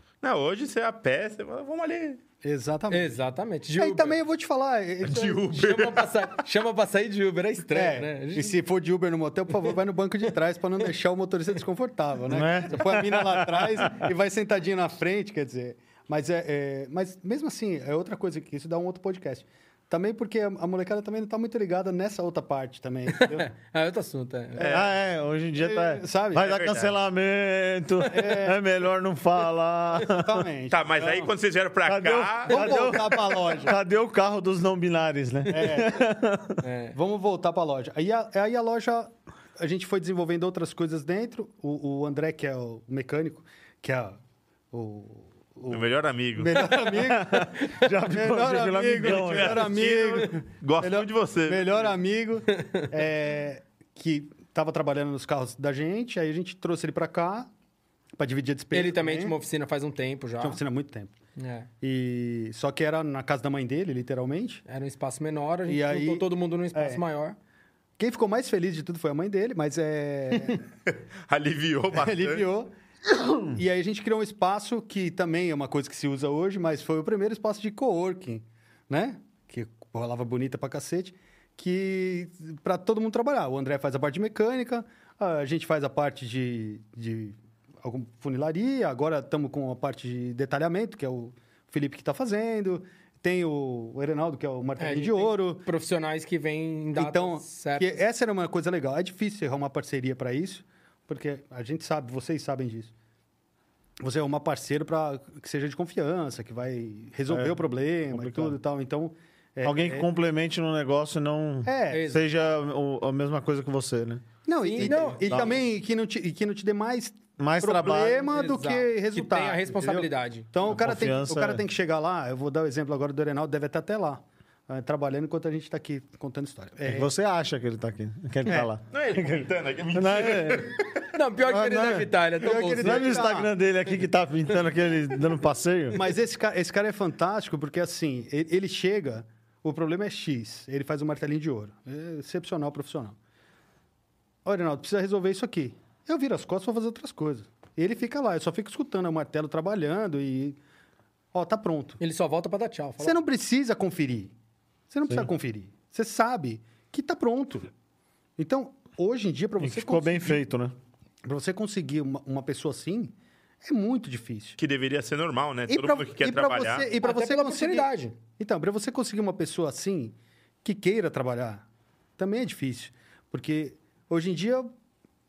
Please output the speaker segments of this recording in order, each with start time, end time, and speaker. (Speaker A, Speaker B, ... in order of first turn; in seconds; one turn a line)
Speaker A: 0.2-2.2
Speaker B: 2.4-3.1
Speaker C: 2.9-4.2
Speaker B: 3.8-5.5
Speaker A: 5.0-6.4
Speaker C: 5.5-8.6
Speaker B: 7.7-23.5
Speaker D: 12.3-14.1
Speaker C: 23.1-24.8
Speaker B: 24.6-24.9
Speaker A: 24.6-24.9
Speaker D: 24.7-30.4
Speaker B: 25.6-26.6
Speaker A: 26.4-27.0
Speaker B: 28.1-28.6
Speaker B: 30.1-31.3
Speaker A: 30.7-32.6
Speaker D: 31.9-36.6
Speaker B: 32.5-33.8
Speaker B: 35.5-36.0
Speaker C: 36.6-37.0
Speaker B: 36.9-44.2
Speaker B: 44.7-57.5
Speaker A: 45.7-46.6
Speaker C: 46.6-47.0
Speaker D: 47.0-49.8
Speaker A: 49.0-51.9
Speaker B: 58.2-59.4
Speaker C: 58.7-60.6
Speaker B: 60.4-61.1
Speaker C: 61.4-61.7
Speaker B: 61.8-64.6
Speaker C: 64.7-67.4
Speaker B: 65.7-67.0
Speaker B: 68.0-70.6
Speaker A: 70.9-72.5
Speaker B: 71.9-72.7
Speaker B: 73.4-95.7
Speaker C: 94.8-98.0
Speaker B: 97.0-102.9
Speaker B: 104.0-110.1
Speaker D: 107.3-107.6
Speaker D: 108.1-108.6
Speaker D: 109.6-114.3
Speaker B: 111.7-112.1
Speaker C: 111.9-112.2
Speaker B: 114.5-127.1
Speaker C: 114.6-115.6
Speaker D: 114.8-115.5
Speaker D: 117.4-118.3
Speaker C: 118.2-120.5
Speaker D: 120.6-121.6
Speaker D: 126.8-130.8
Speaker A: 128.9-131.0
Speaker C: 131.1-133.2
Speaker D: 131.4-136.0
Speaker B: 132.4-133.5
Speaker B: 135.9-143.2
Speaker B: 144.4-150.6
Speaker B: 151.3-152.0
Speaker C: 152.0-153.2
Speaker B: 153.0-154.3
Speaker B: 154.9-157.7
Speaker B: 158.4-160.4
Speaker D: 159.6-160.8
Speaker B: 161.2-164.6
Speaker A: 164.6-166.9
Speaker B: 165.7-171.7
Speaker C: 167.0-168.2
Speaker B: 172.2-174.7